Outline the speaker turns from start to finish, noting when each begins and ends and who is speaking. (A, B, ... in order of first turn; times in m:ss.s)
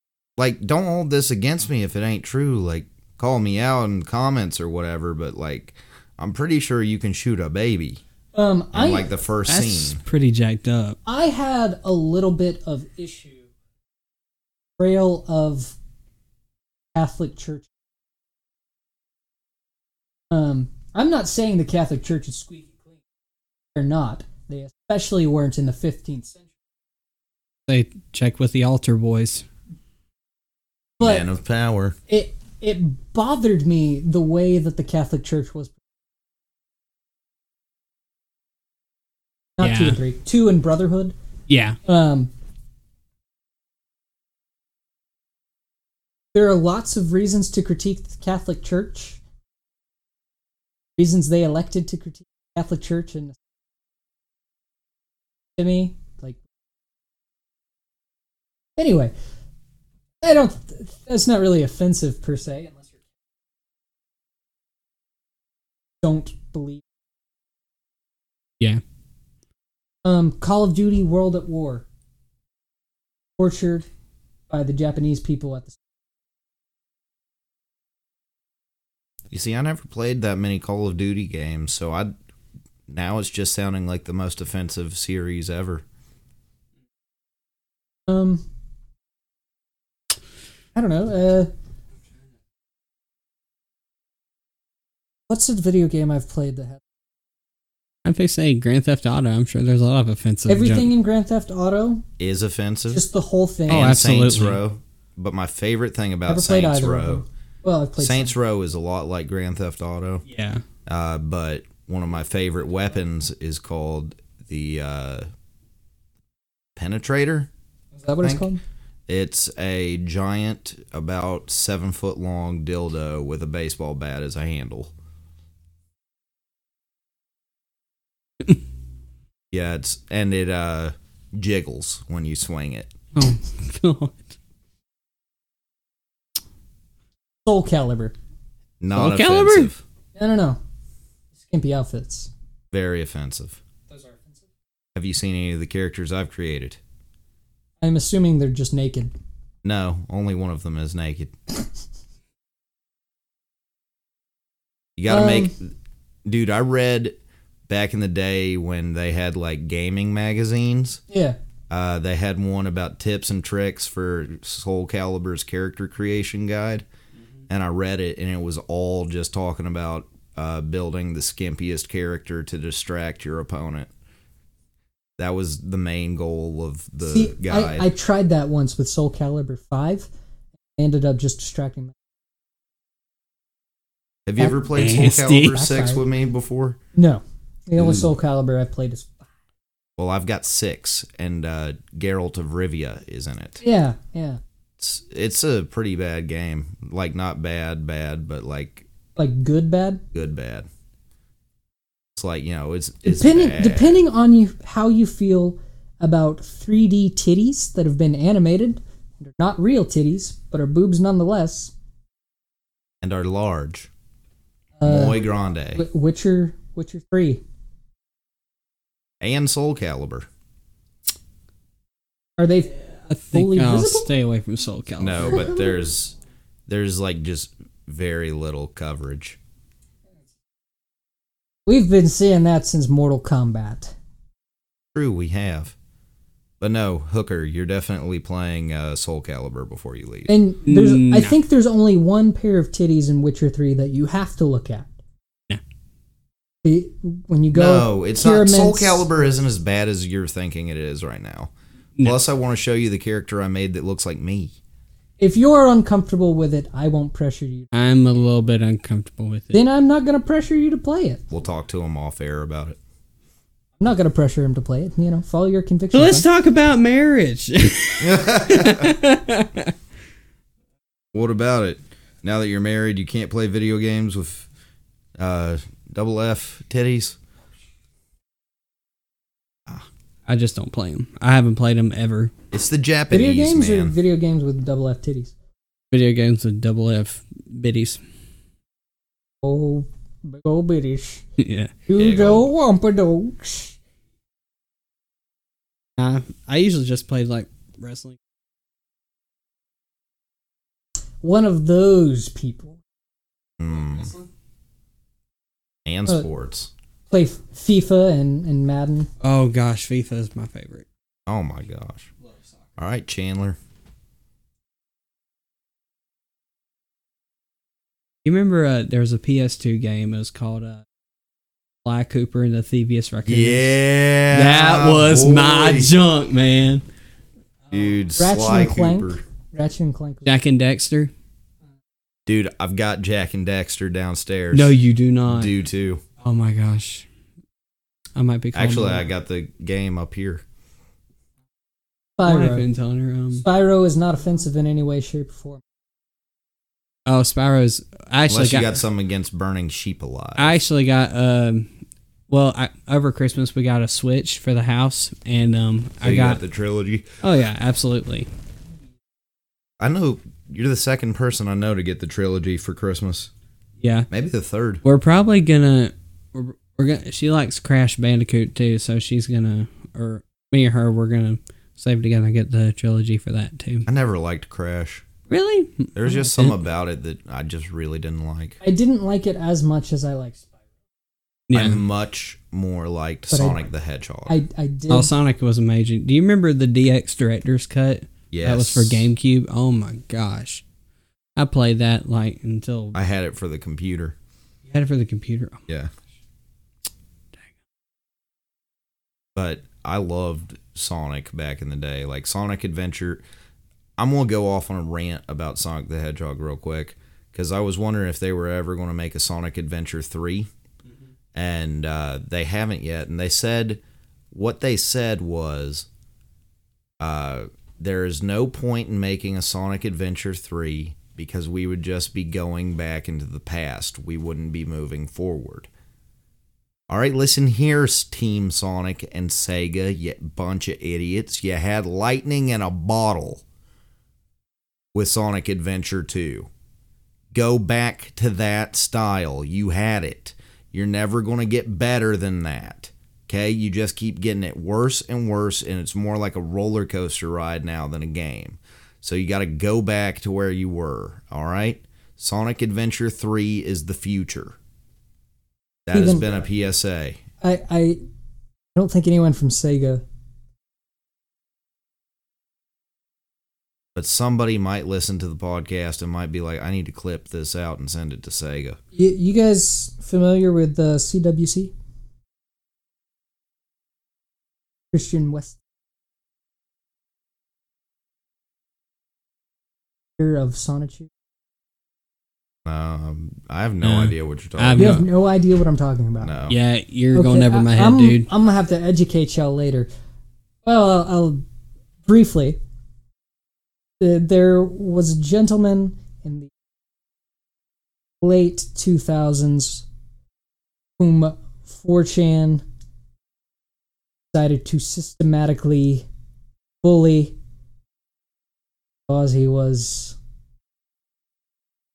0:00.4-0:08.0 A
0:08.3-0:09.1 B
0:08.7-0:10.0 A
0:09.5-0:11.0 C
0:11.0-0:13.5 B
0:14.8-0:15.8 B
0:16.9-0:17.7 B
0:20.3-0:23.0 B
0:23.7-0:26.4 B
0:27.7-0:29.4 C
0:31.0-0:31.3 B
0:31.0-0:32.0 A
0:32.1-0:35.7 B
0:39.6-0:41.1 B
0:39.6-0:40.0 C
0:41.5-0:41.8 C
0:41.8-0:42.3 B
0:46.3-0:49.2 B
0:51.0-0:53.4 B
0:55.6-0:56.4 B
0:58.8-0:59.1 B
1:00.2-1:02.9 B
1:06.0-1:06.8 B
1:10.0-1:11.8 B
1:13.4-1:13.9 B
1:14.5-1:15.8 B
1:19.3-1:22.1 A
1:22.9-1:25.8 A
1:28.1-1:28.4 B
1:30.7-1:31.5 B
1:35.3-1:36.8 B
1:38.0-1:40.9 C
1:40.5-1:42.0 B
1:42.2-1:43.0 A
1:42.9-1:44.0 B
1:43.7-1:44.6 C
1:43.7-1:47.2 A
1:46.3-1:48.3 B
1:48.0-1:50.2 A
1:50.2-1:50.6 C
1:50.9-1:55.3 A
1:56.8-1:57.5 A
1:57.9-1:58.6 B
1:59.1-2:04.9 A
2:09.5-2:12.9 A
2:13.1-2:14.2 C
2:17.4-2:18.1 B
2:18.8-2:19.8 A
2:18.9-2:19.7 C
2:20.2-2:20.6 B
2:21.4-2:22.3 B
2:22.7-2:23.6 A
2:23.9-2:24.4 B
2:24.9-2:26.8 A
2:27.8-2:29.1 B
2:29.6-2:31.3 A
2:35.0-2:35.7 A
2:35.1-2:35.5 B
2:36.2-2:37.2 A
2:37.7-2:41.0 A
2:41.1-2:41.4 B
2:41.7-2:46.8 A
2:47.5-2:53.9 A
2:55.2-2:57.9 A
2:57.0-3:00.1 B
3:00.8-3:01.9 B
3:04.2-3:06.8 A
3:04.4-3:06.0 B
3:04.8-3:05.6 C
3:06.9-3:09.2 B
3:07.8-3:08.0 A
3:10.0-3:13.6 A
3:13.6-3:14.4 B
3:14.8-3:18.8 A
3:19.2-3:20.0 B
3:20.1-3:20.7 A
3:22.2-3:24.0 A
3:23.0-3:31.7 B
3:33.0-3:33.9 A
3:34.8-3:35.2 B
3:34.8-3:35.8 A
3:35.7-3:37.4 B
3:39.2-3:40.3 A
3:42.4-3:42.8 B
3:43.1-3:45.4 C
3:43.3-3:44.1 B
3:45.0-3:46.1 A
3:45.2-3:45.8 B
3:46.7-3:49.4 A
3:51.6-3:53.9 B
3:54.9-3:55.7 A
3:56.6-4:00.3 A
4:00.3-4:04.9 B
4:00.6-4:01.3 C
4:06.6-4:09.0 B
4:07.5-4:14.5 A
4:15.2-4:17.7 B
4:17.7-4:19.6 C
4:19.5-4:21.2 B
4:21.3-4:22.8 A
4:23.8-4:26.2 B
4:25.9-4:29.7 C
4:28.0-4:28.9 A
4:31.1-4:34.5 A
4:35.2-4:37.2 A
4:40.2-4:42.3 C
4:42.5-4:43.9 A
4:43.1-4:45.3 B
4:45.9-4:48.0 C
4:49.4-4:51.2 B
4:51.4-4:51.7 C
4:51.9-4:53.7 B
4:51.9-4:52.5 A
4:56.0-4:58.2 C
5:01.2-5:02.8 B
5:03.6-5:04.1 A
5:05.8-5:06.7 A
5:07.1-5:09.1 B
5:09.2-5:10.8 C
5:11.3-5:12.1 A
5:12.8-5:13.6 A
5:18.2-5:20.8 C
5:21.8-5:23.7 C
5:23.2-5:25.9 A
5:24.3-5:26.8 C
5:27.7-5:29.2 A
5:28.2-5:30.3 B
5:30.2-5:31.1 C
5:32.3-5:34.7 A
5:34.5-5:35.5 C
5:35.2-5:36.0 A
5:36.2-5:37.0 C
5:38.2-5:39.0 C
5:38.5-5:40.4 A
5:42.2-5:42.6 B
5:42.2-5:43.4 C
5:43.4-5:45.6 B
5:47.1-5:48.8 C
5:48.3-5:50.6 A
5:50.4-5:51.7 C
5:52.3-5:56.4 C
5:56.0-5:57.2 A
5:57.2-5:58.3 C
5:59.8-6:03.3 A
6:03.8-6:04.1 C
6:04.1-6:04.8 A
6:04.8-6:13.9 C
6:13.9-6:15.0 A
6:15.3-6:16.6 C
6:15.9-6:18.6 A
6:18.6-6:20.5 B
6:21.5-6:21.8 C
6:21.5-6:24.4 A
6:23.3-6:23.6 B
6:24.3-6:25.1 B
6:24.9-6:30.6 C
6:28.3-6:29.1 A
6:31.4-6:33.0 C
6:32.9-6:34.2 A
6:34.7-6:35.6 C
6:39.4-6:43.2 A
6:44.0-6:50.5 A
6:51.3-6:53.8 A
6:54.3-6:55.9 A
6:57.0-7:05.7 A
7:06.9-7:13.4 A
7:14.9-7:16.5 A
7:17.3-7:34.6 A
7:35.9-7:37.2 A
7:35.9-7:36.2 B
7:37.4-7:38.0 B
7:38.7-7:40.0 B
7:44.0-7:48.8 A
7:48.9-7:51.7 B
7:54.9-7:55.6 B
8:00.2-8:01.1 B
8:02.6-8:05.0 A
8:03.8-8:05.0 C
8:04.7-8:06.3 B
8:06.2-8:06.6 A
8:06.5-8:08.3 C
8:07.1-8:09.9 B
8:10.6-8:11.4 B
8:12.0-8:12.6 B
8:14.0-8:16.5 B
8:18.2-8:19.8 B
8:21.0-8:22.6 B
8:24.3-8:26.0 B
8:26.8-8:27.3 B
8:29.1-8:30.2 B